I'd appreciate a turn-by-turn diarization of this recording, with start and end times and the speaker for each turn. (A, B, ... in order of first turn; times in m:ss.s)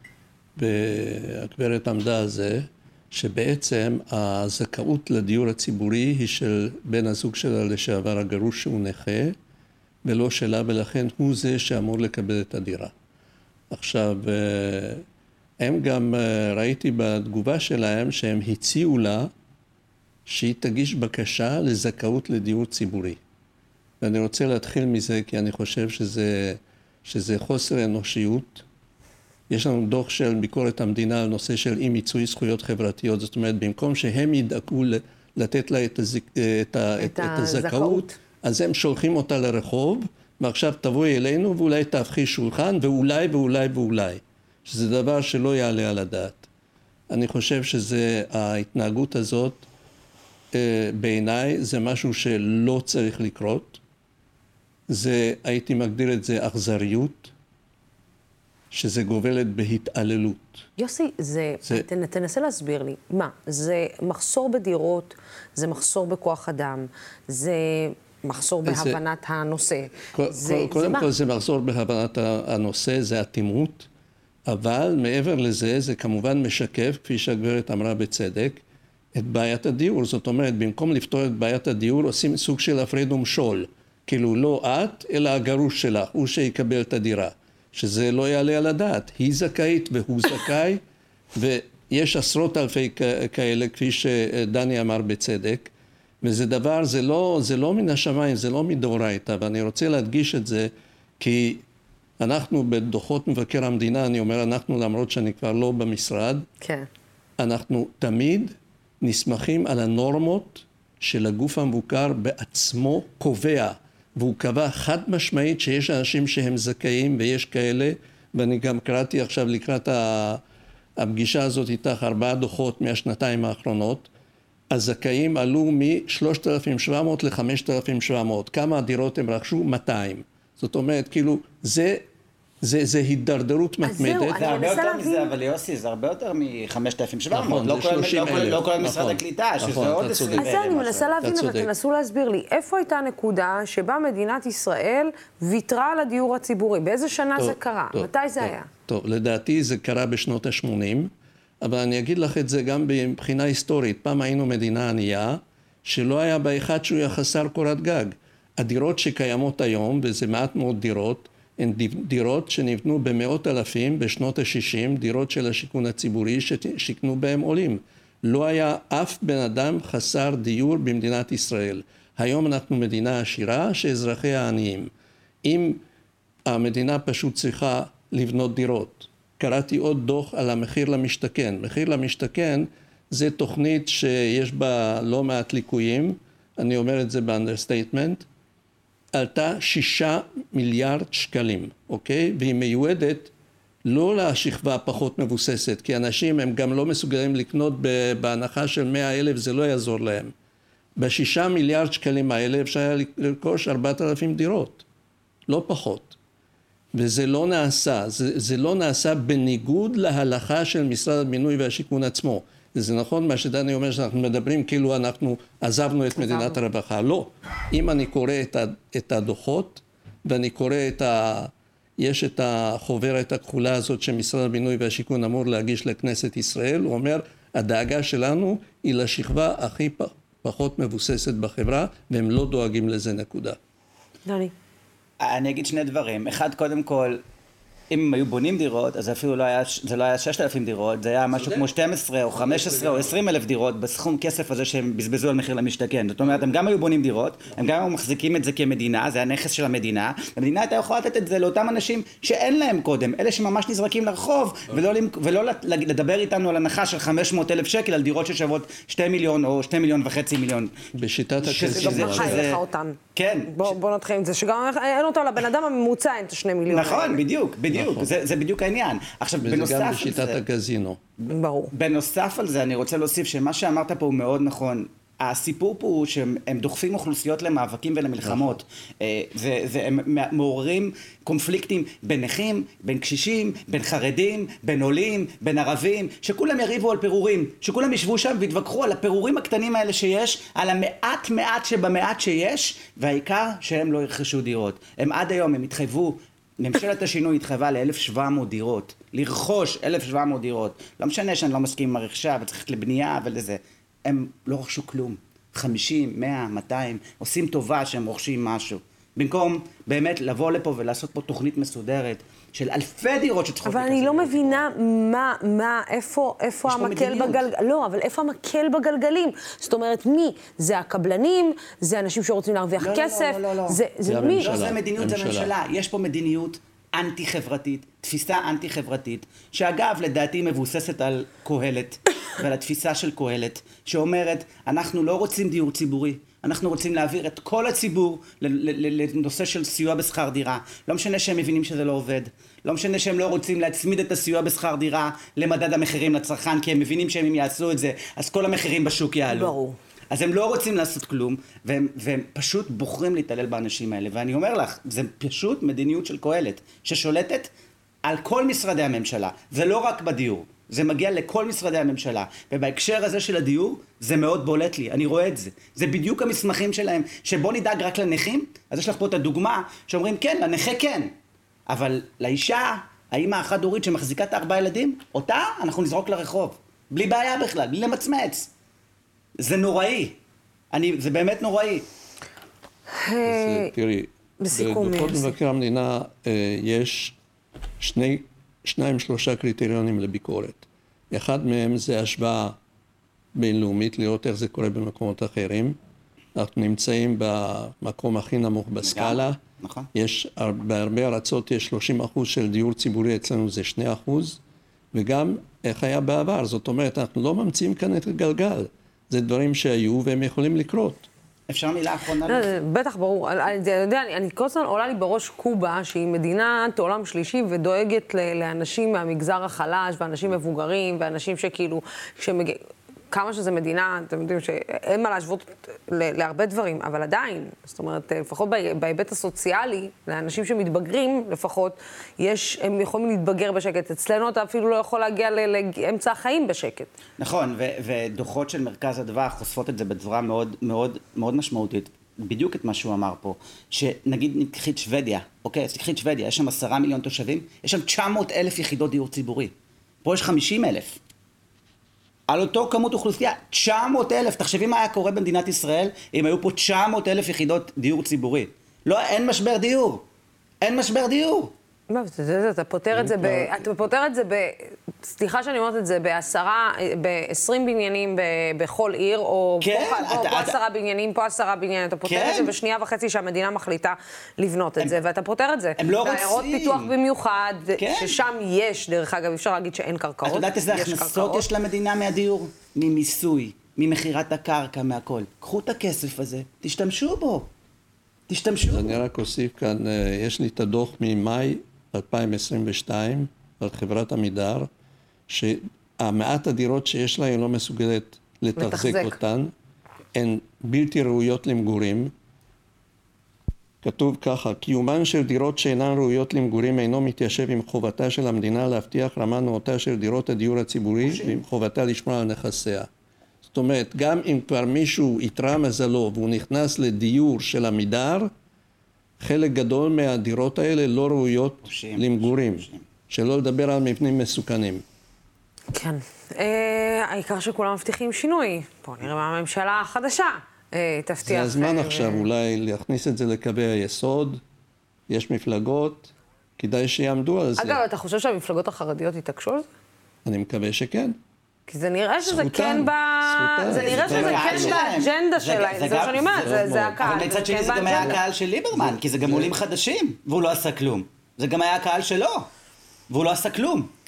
0:00.6-0:09.3 A
0:10.0-0:12.9 A
0:13.7-0:15.0 A
0:15.6-0:19.3 A
0:20.3-0:23.2 A
0:24.0-0:28.6 A
0:29.5-0:46.5 A
0:37.0-0:38.2 B
0:47.1-0:49.7 A
0:50.5-0:53.8 A
0:54.9-0:57.3 A
0:58.7-1:00.6 A
1:00.8-1:11.1 B
1:08.6-1:09.0 A
1:10.1-1:13.9 A
1:14.5-1:18.6 A
1:19.1-1:30.8 A
1:31.3-1:35.7 A
1:36.2-1:41.6 A
1:42.2-1:46.4 A
1:46.6-1:46.9 B
1:47.4-2:00.4 A
2:01.0-2:04.1 A
2:04.7-2:12.0 A
2:12.6-2:14.7 A
2:13.8-2:15.3 B
2:14.4-2:21.1 C
2:17.3-2:20.5 A
2:20.3-2:28.7 B
2:21.2-2:21.7 A
2:27.4-2:31.1 A
2:31.6-2:54.9 A
2:55.4-2:55.8 A
2:56.5-3:08.2 A
3:09.1-3:13.3 A
3:13.8-3:20.3 A
3:21.0-3:24.8 A
3:25.5-3:26.2 A
3:26.9-3:53.6 A
3:36.2-3:36.6 B
3:54.2-3:54.5 B
3:55.2-3:57.2 C
3:57.9-4:20.8 C
4:01.3-4:01.7 A
4:02.3-4:03.2 A
4:20.9-4:22.5 A
4:21.4-4:22.6 C
4:21.7-4:27.2 B
4:23.1-4:23.8 C
4:26.7-4:30.4 C
4:27.7-4:28.1 A
4:29.4-4:31.0 A
4:31.2-5:14.6 C
4:31.3-4:31.7 B
4:38.2-4:38.6 A
5:13.6-5:24.6 B
5:16.6-5:17.4 C
5:22.8-5:23.8 C
5:24.0-5:25.5 A
5:24.4-5:49.5 C
5:49.3-5:49.8 B
5:50.1-5:57.5 C
5:58.0-6:11.1 C
6:11.7-6:18.5 C
6:19.4-6:20.2 C
6:20.7-6:21.9 C
6:22.9-6:23.7 B
6:23.2-6:27.2 A
6:24.4-6:25.3 B
6:27.8-6:32.6 A
6:33.3-6:35.8 A
6:36.3-6:39.4 A
6:38.8-6:39.9 C
6:39.9-6:44.4 A
6:44.9-6:51.1 A
6:51.5-6:52.6 C
6:52.3-7:16.9 B
7:17.2-7:29.5 C
7:30.0-7:31.0 C
7:32.3-7:40.0 C
7:40.6-7:41.5 C
7:41.9-8:01.5 B
7:42.9-7:43.6 A
7:49.6-7:50.6 C
7:52.0-7:52.5 C
7:55.8-7:56.9 C
7:57.8-7:58.2 C
8:00.2-8:07.5 C
8:08.3-8:09.0 C
8:08.7-8:14.7 A
8:15.3-8:19.5 A
8:18.6-8:19.2 B
8:20.1-8:22.1 A
8:23.8-8:32.9 A
8:31.0-8:31.4 C
8:33.5-8:38.3 A
8:39.2-8:44.8 A
8:41.6-8:42.8 C
8:45.7-8:52.3 B
8:51.2-8:54.4 A
8:55.1-8:57.8 A
8:57.6-8:59.7 B
9:00.2-9:01.2 A
9:01.7-9:08.2 B
9:02.2-9:04.8 A
9:03.8-9:12.5 C
9:06.4-9:08.2 A
9:08.7-9:09.5 A
9:13.1-9:13.9 C